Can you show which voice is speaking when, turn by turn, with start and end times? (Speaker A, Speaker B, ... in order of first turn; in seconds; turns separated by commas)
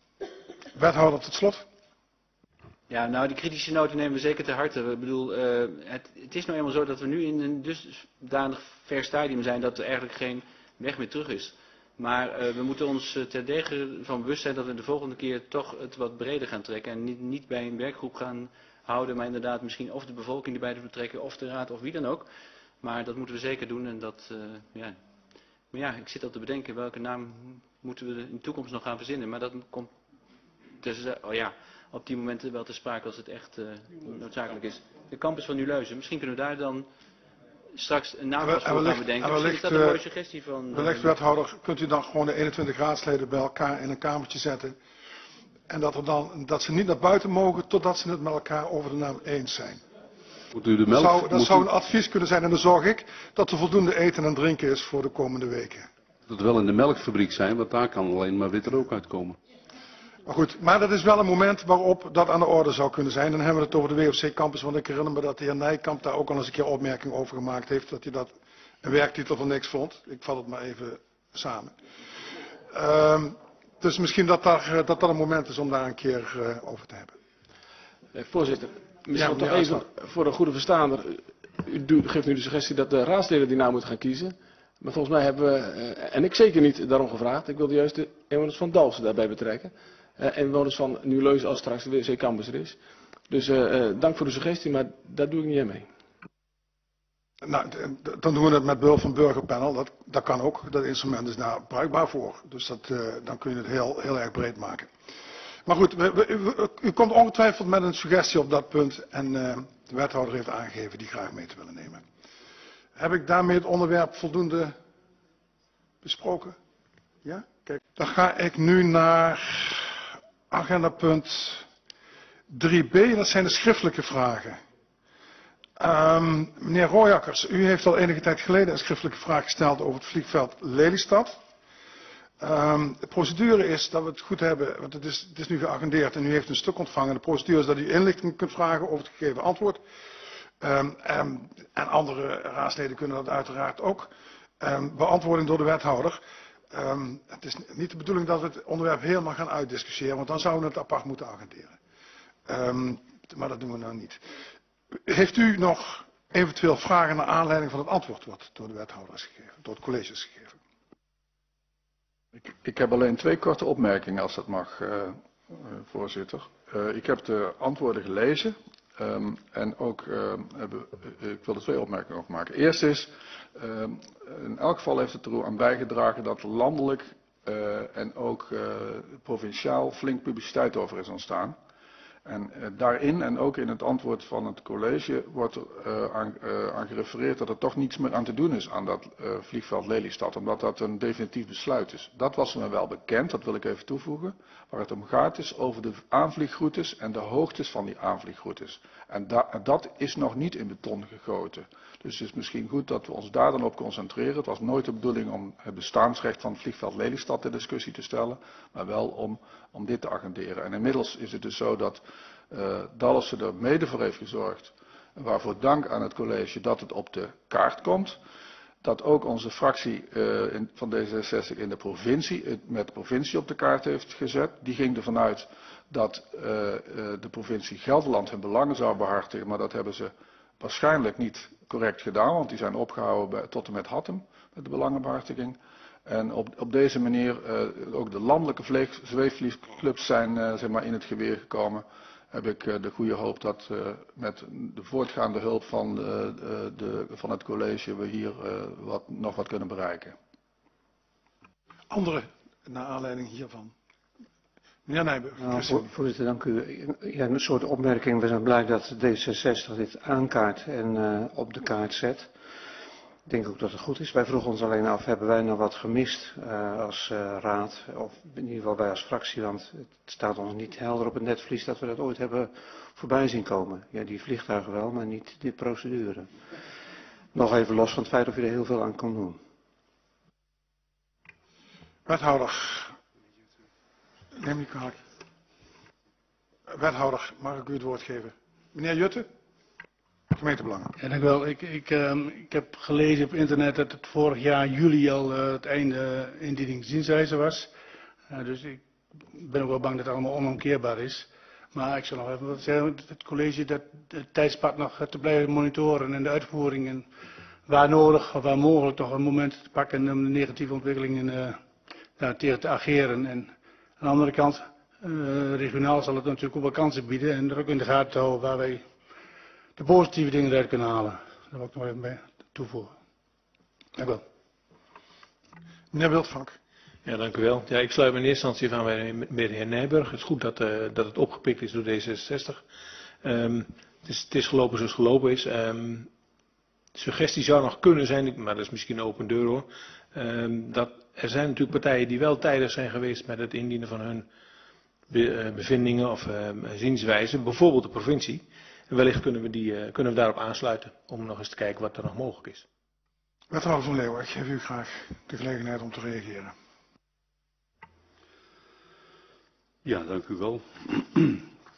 Speaker A: 0.7-1.7, Speaker B: 2.9-22.3, Speaker B: 22.8-25.0, Speaker B: 25.7-29.9, Speaker B: 30.8-36.9, Speaker B: 37.7-41.2, Speaker A: 38.4-40.0, Speaker A: 40.7-44.8, Speaker A: 45.7-49.8, Speaker C: 50.5-51.7, Speaker A: 50.9-55.9, Speaker C: 56.3-59.4, Speaker A: 60.2-71.8, Speaker A: 72.7-77.2, Speaker D: 78.1-92.8, Speaker A: 79.1-79.9, Speaker D: 93.3-95.9, Speaker A: 97.4-104.9, Speaker A: 105.7-112.0, Speaker A: 113.0-114.8, Speaker A: 116.0-116.6, Speaker A: 117.2-121.7, Speaker A: 122.5-124.6, Speaker A: 125.8-131.4, Speaker A: 132.4-139.8, Speaker A: 140.6-151.8, Speaker A: 152.5-154.2, Speaker A: 155.1-160.6, Speaker E: 162.4-181.6, Speaker E: 182.2-218.2, Speaker E: 218.8-250.2, Speaker A: 251.9-253.7, Speaker A: 254.9-255.9, Speaker F: 255.4-262.3, Speaker F: 263.3-276.3, Speaker F: 277.3-279.4, Speaker A: 282.1-282.9, Speaker A: 284.3-285.0, Speaker A: 286.7-289.3, Speaker A: 290.3-290.9, Speaker G: 291.0-297.7, Speaker G: 298.3-307.1, Speaker G: 307.7-311.6, Speaker G: 312.2-318.9, Speaker G: 319.8-323.0, Speaker G: 324.0-324.2, Speaker A: 325.9-326.6, Speaker H: 327.1-332.6, Speaker H: 333.2-336.1, Speaker H: 336.9-344.3, Speaker H: 345.1-352.7, Speaker A: 353.5-356.5, Speaker C: 359.8-361.5